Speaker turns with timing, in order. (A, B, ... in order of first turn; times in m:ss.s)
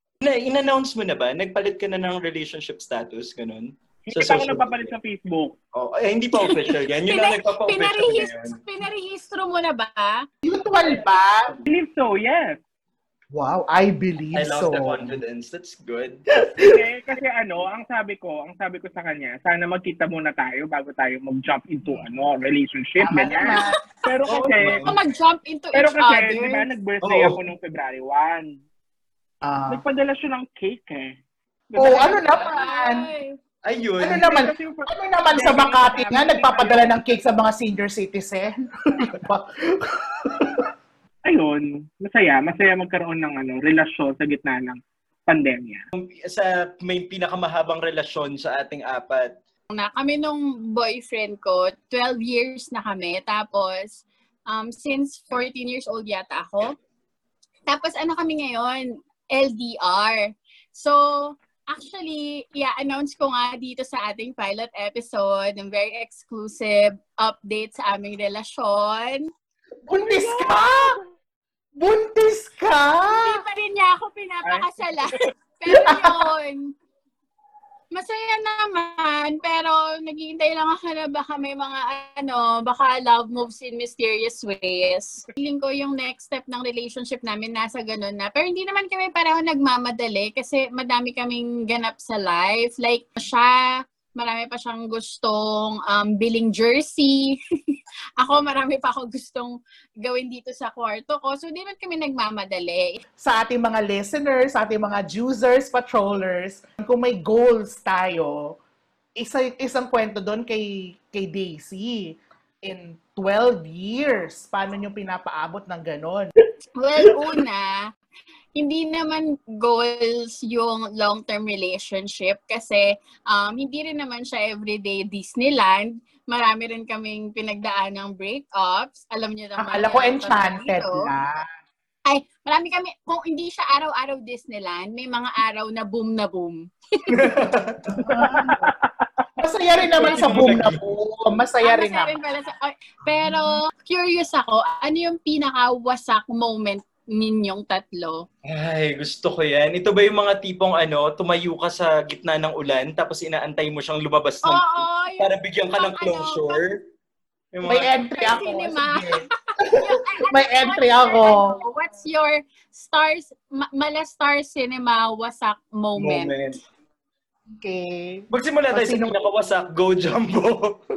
0:00.2-0:04.9 A
0:04.1-0:05.6 B
0:05.7-0:08.6 A
0:06.4-0:10.2 C
0:10.4-0:11.6 D
0:11.7-0:12.6 B
0:13.3-0:15.2 D
0:14.3-0:16.2 A
0:16.4-0:16.8 D
0:16.6-0:24.8 B
0:23.0-0:23.8 D
0:24.2-0:25.0 A
0:24.8-0:26.7 C
0:25.7-0:28.6 B
0:27.0-0:27.4 A
0:29.4-0:29.8 D
0:29.7-0:31.1 B
0:31.7-0:32.4 B
0:31.8-0:33.0 D
0:32.3-0:33.4 C
0:33.6-0:34.2 A
0:34.0-0:40.7 D
0:34.2-0:36.9 B
0:41.2-0:45.8 B
0:46.0-0:49.3 A
0:49.7-0:56.7 C
0:57.7-1:09.3 C
1:09.9-1:11.0 D
1:10.0-1:11.0 B
1:11.8-1:13.4 D
1:13.0-1:16.7 C
1:14.4-1:14.8 B
1:15.7-1:16.1 D
1:17.9-1:33.6 C
1:34.2-1:43.0 C
1:43.2-1:48.6 D
1:49.2-1:56.3 D
1:56.8-1:57.9 C
1:58.6-2:11.0 C
2:09.6-2:11.4 D
2:12.1-2:17.2 C
2:17.1-2:18.0 A
2:17.9-2:18.7 D
2:18.2-2:18.9 B
2:19.4-2:22.2 D
2:19.8-2:20.8 A
2:21.6-2:28.2 C
2:28.5-2:36.8 A
2:34.4-2:36.6 C
2:37.5-2:38.0 A
2:37.6-2:41.6 D
2:38.1-2:46.4 C
2:46.0-2:46.6 A
2:47.5-2:49.3 D
2:48.3-2:50.8 A